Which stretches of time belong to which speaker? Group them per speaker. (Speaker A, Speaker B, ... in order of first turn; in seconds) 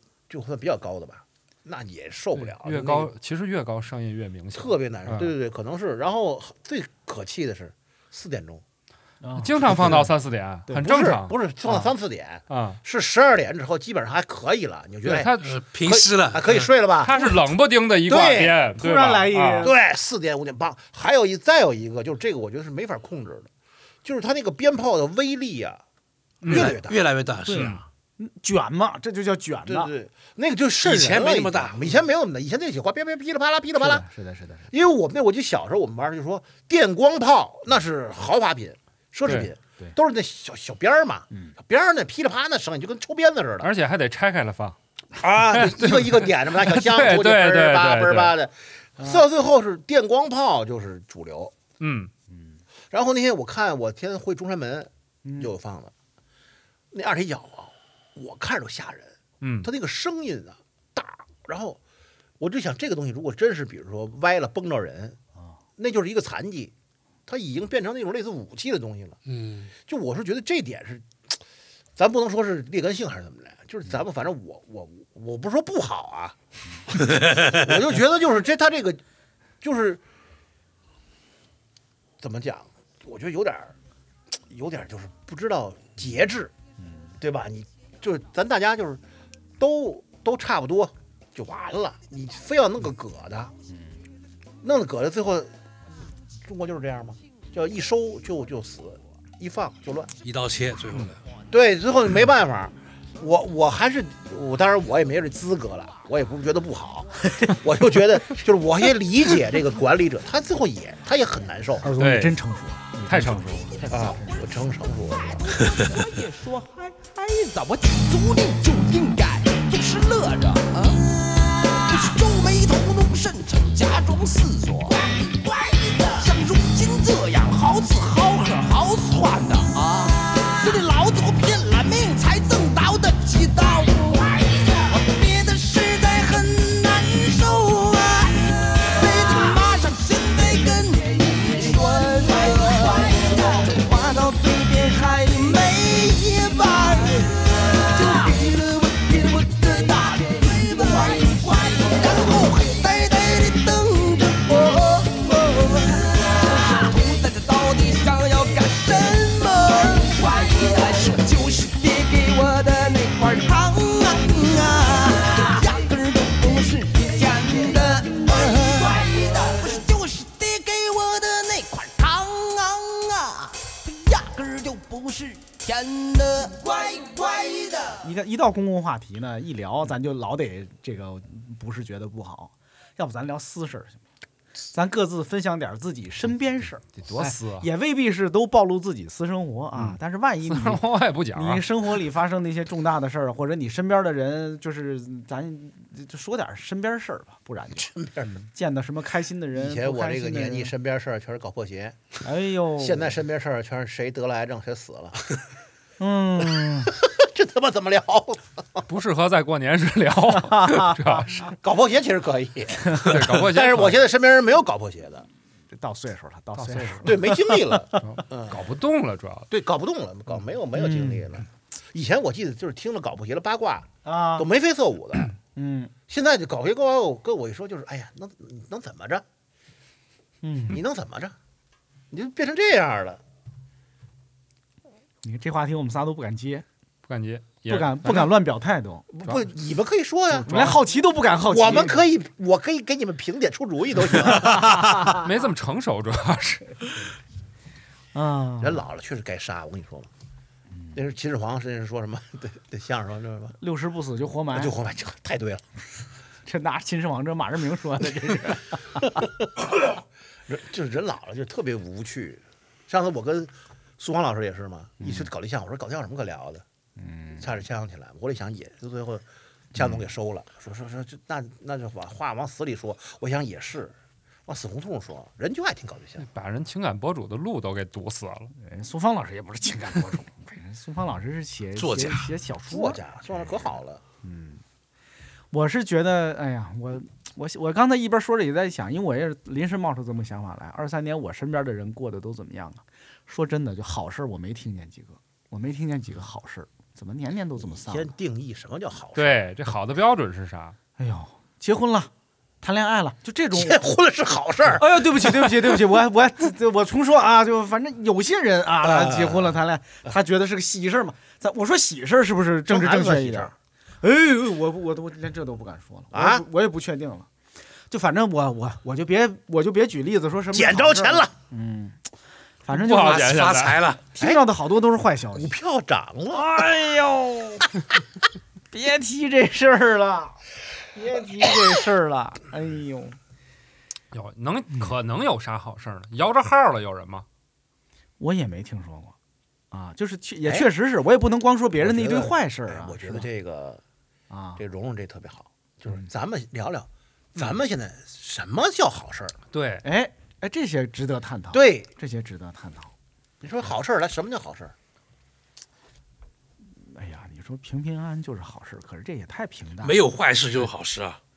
Speaker A: 0.3-3.1, 4.5-8.6, 9.7-10.0, 10.8-17.2, 18.1-18.6, 19.6-23.5, 24.0-25.8, 26.4-27.0, 29.7-34.1, 34.7-43.7, 45.2-51.6, 52.9-55.9, 56.9-61.8, 62.4-65.2, 65.8-66.7, 67.3-69.2, 69.8-71.4, 72.0-76.4, 76.9-79.0, 79.6-80.0, 82.2-83.7, 84.5-86.5, 87.2-89.0, 89.6-93.5, 94.6-95.5, 96.4-100.1, 101.5-111.9, 113.9-115.6, 197.8-198.5, 199.5-202.1, 202.8-205.3, 206.6-208.8, 211.5-215.3, 217.0-218.6, 219.5-225.3, 226.1-229.2, 230.7-231.4, 232.1-233.2, 239.1-240.8, 241.5-245.2, 248.6-250.1, 250.9-253.6, 254.5-255.7, 259.2-266.6, 267.4-273.9, 274.5-276.3, 282.7-284.0, 297.6-299.4, 303.5-305.2, 308.8-309.6, 312.7-313.5, 316.1-316.4, 320.5-321.3, 325.3-326.5, 340.4-340.7, 341.8-343.8, 344.6-349.4, 351.5-351.9, 353.4-354.7
Speaker B: 2.4-5.3, 9.4-11.4, 12.5-12.8, 15.0-15.6, 17.0-19.7, 26.4-26.8, 39.2-39.5, 43.6-44.8, 45.5-48.3, 51.8-52.1, 59.4-59.7, 112.0-112.4, 113.1-113.7, 187.0-187.7, 189.8-191.7, 208.9-211.4, 212.9-214.0, 216.6-217.1, 218.0-219.5, 237.1-238.3, 245.1-247.0, 276.2-278.5, 299.2-300.8, 322.7-323.9, 334.1-337.3, 349.5-349.8
Speaker C: 9.2-10.1, 18.8-19.7, 27.4-29.9, 33.8-34.7, 41.3-41.6, 52.3-52.6, 55.2-55.5, 86.8-87.1, 93.7-93.9, 111.8-114.5, 178.0-184.0, 184.7-197.9, 198.5-200.7, 202.2-203.2, 206.0-206.9, 210.4-211.5, 215.7-218.0, 220.7-221.3, 224.1-224.5, 225.6-225.9, 230.4-230.8, 235.2-236.7, 237.7-239.1, 240.3-242.0, 248.1-248.8, 253.6-254.8, 256.5-259.2, 265.0-265.3, 267.0-267.4, 278.6-283.6, 284.2-284.6, 285.5-298.1, 301.0-302.1, 302.6-303.8, 304.7-317.3, 317.9-322.0, 322.6-323.4, 324.1-325.5, 326.3-327.7, 328.7-330.4, 330.9-333.2, 338.2-339.1, 339.7-343.3, 344.3-344.6, 349.8-352.9, 356.6-360.0
Speaker D: 15.4-16.7, 26.5-27.8, 30.8-32.0, 69.3-69.7, 77.0-77.6, 100.2-101.2, 281.8-282.3, 323.1-324.0, 359.8-361.2
Speaker E: 115.1-178.1